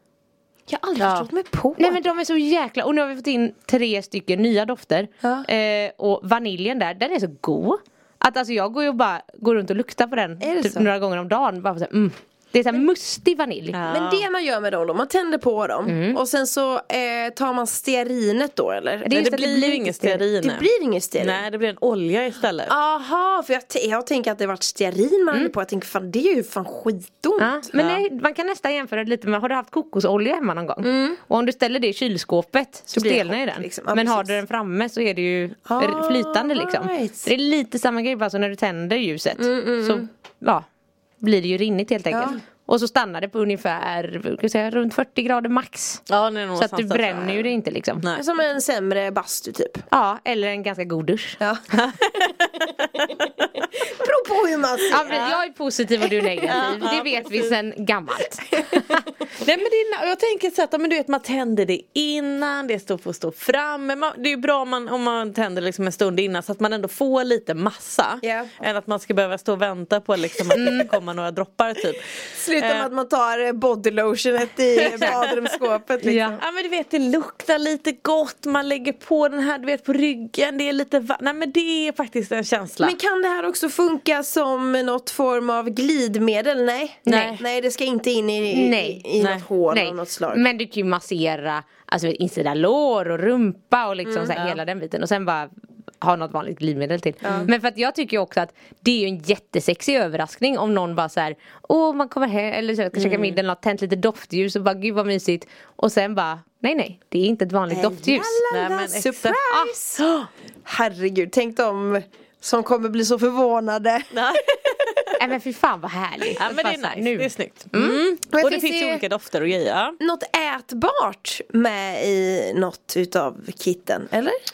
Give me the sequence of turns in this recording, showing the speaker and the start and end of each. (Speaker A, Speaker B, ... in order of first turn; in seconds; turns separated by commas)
Speaker A: 0.7-2.0, Speaker B: 1.0-1.3, Speaker C: 1.8-13.8, Speaker A: 5.2-5.5, Speaker A: 10.4-10.9, Speaker B: 13.7-14.2, Speaker A: 13.9-19.2, Speaker C: 15.9-16.2, Speaker C: 19.1-20.2, Speaker B: 19.1-20.7, Speaker A: 20.4-21.4, Speaker B: 21.2-22.7, Speaker A: 22.7-27.6, Speaker C: 27.4-40.7, Speaker B: 27.8-28.1, Speaker A: 30.8-31.2, Speaker A: 32.9-34.4, Speaker A: 35.7-37.3, Speaker A: 39.4-40.1, Speaker C: 41.2-46.0, Speaker A: 42.1-42.4, Speaker B: 46.1-47.5, Speaker C: 46.6-48.0, Speaker A: 48.1-49.9, Speaker C: 49.9-51.4, Speaker B: 51.8-53.5, Speaker A: 53.8-55.3, Speaker C: 54.9-58.9, Speaker B: 55.1-55.4, Speaker A: 56.4-56.7, Speaker B: 56.5-57.5, Speaker A: 58.5-59.0, Speaker B: 59.4-72.9, Speaker A: 68.2-68.6, Speaker C: 70.5-70.9, Speaker A: 72.3-76.4, Speaker B: 74.8-75.2, Speaker B: 76.0-83.0, Speaker C: 76.1-76.4, Speaker A: 82.8-90.4, Speaker B: 87.1-87.4, Speaker C: 87.1-87.4, Speaker C: 88.5-89.0, Speaker B: 89.2-89.5, Speaker C: 89.7-95.5, Speaker A: 94.0-94.4, Speaker B: 94.3-94.6, Speaker C: 96.0-108.4, Speaker B: 97.2-97.5, Speaker A: 97.2-97.5, Speaker B: 102.9-103.4, Speaker A: 107.7-114.8, Speaker B: 108.5-109.4, Speaker B: 114.1-115.2, Speaker C: 115.2-118.0, Speaker B: 116.4-120.0, Speaker A: 118.3-119.0, Speaker A: 120.0-124.4